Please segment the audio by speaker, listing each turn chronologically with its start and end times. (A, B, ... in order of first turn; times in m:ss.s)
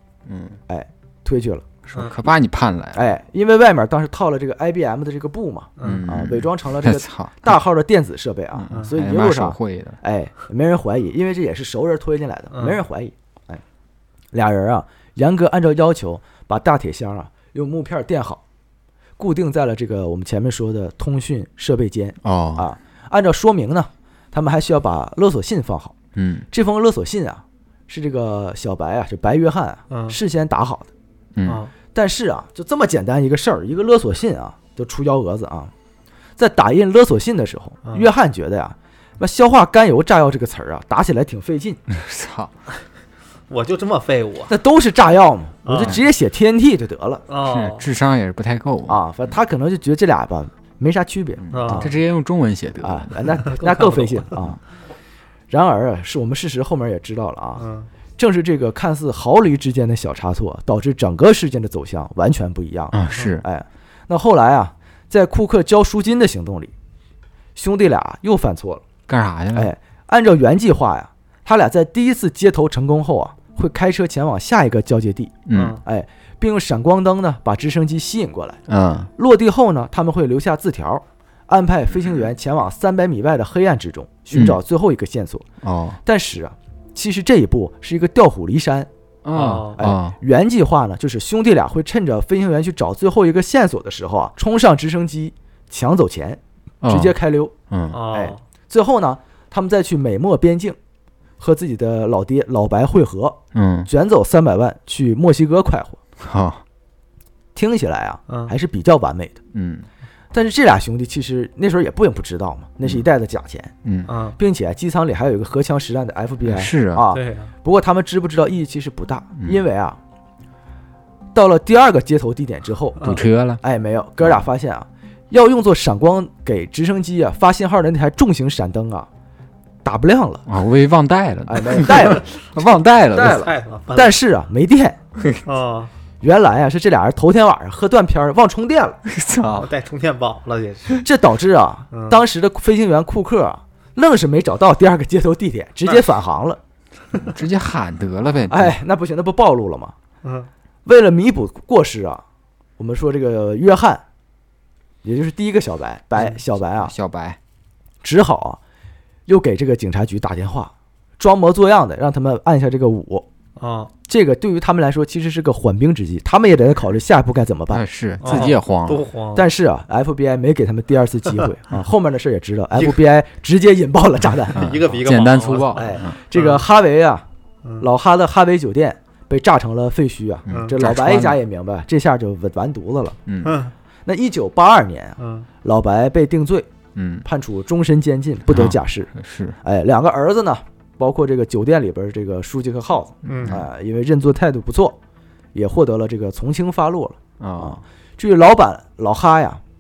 0:00.2-0:00.6 A
0:00.7-0:01.6 B
0:01.8-0:03.0 A
0:02.9-0:13.6 B
0:05.8-0:06.0 C
0:05.8-0:07.5 A
0:08.5-0:10.0 A
0:12.5-0:12.8 C
0:14.3-0:18.4 B
0:19.2-0:25.9 B
0:22.2-0:22.7 A
0:26.2-0:26.5 A
0:26.5-0:30.9 B
0:29.9-0:30.2 C
0:31.3-0:31.6 A
0:31.4-0:31.7 C
0:31.9-0:35.7 B
0:36.4-0:41.8 B
0:41.9-0:42.5 A
0:43.5-0:44.5 C
0:44.5-0:47.2 B
0:45.6-0:46.0 C
0:47.3-0:47.9 C
0:47.4-0:49.0 A
0:48.9-0:51.9 B
0:51.4-0:53.1 A
0:51.5-0:51.9 C
0:52.8-0:54.6 B
0:53.4-0:54.3 C
0:55.5-0:57.6 B
0:57.6-0:57.9 C
0:58.2-1:06.7 B
1:02.9-1:03.4 A
1:07.6-1:08.8 B
1:09.1-1:09.7 A
1:09.5-1:18.6 B
1:15.5-1:15.8 A
1:15.5-1:15.8 C
1:18.7-1:19.1 A
1:19.1-1:25.4 B
1:24.3-1:24.6 A
1:25.6-1:26.0 A
1:26.0-1:28.9 B
1:29.2-1:30.2 A
1:29.3-1:29.9 C
1:29.8-1:37.5 B
1:36.8-1:37.2 A
1:37.7-1:38.0 A
1:37.9-1:38.4 C
1:38.1-1:40.8 B
1:41.4-1:46.0 B
1:43.5-1:43.9 A
1:46.2-1:46.6 A
1:47.5-1:49.4 B
1:48.3-1:48.5 C
1:49.5-1:49.9 A
1:50.3-1:53.7 B
1:53.8-1:54.1 A
1:54.1-1:54.4 C
1:54.4-2:00.0 B
1:56.4-1:57.0 A
1:57.1-1:57.5 C
2:01.3-2:09.1 B
2:03.0-2:03.6 A
2:09.8-2:10.4 B
2:10.5-2:13.5 A
2:11.5-2:12.3 B
2:13.1-2:14.2 C
2:13.1-2:15.0 B
2:15.2-2:15.4 A
2:15.4-2:15.9 C
2:16.2-2:19.0 B
2:19.0-2:19.7 A
2:19.5-2:21.0 C
2:21.0-2:26.6 B
2:21.9-2:22.2 C
2:27.1-2:28.8 A
2:28.5-2:29.9 B
2:30.2-2:30.5 C
2:30.8-2:32.2 B
2:32.8-2:34.0 B
2:35.0-2:36.9 B
2:36.8-2:37.4 A
2:38.0-2:38.6 B
2:39.3-2:43.3 B
2:43.6-2:43.9 C
2:44.1-2:47.8 B
2:47.7-2:49.0 A
2:48.2-2:49.5 C
2:49.3-2:54.8 B
2:52.7-2:53.0 C
2:54.5-2:56.6 C
2:54.5-2:56.2 A
2:55.7-2:57.2 B
2:57.8-3:03.2 B
3:00.5-3:01.4 A
3:03.2-3:03.6 A
3:03.4-3:03.7 C
3:04.0-3:06.7 B
3:05.2-3:05.5 C
3:06.9-3:07.2 A
3:07.2-3:09.1 B
3:08.5-3:09.6 A
3:09.6-3:15.0 B
3:13.2-3:13.6 C
3:13.3-3:13.6 A
3:15.5-3:19.6 B
3:17.4-3:17.8 A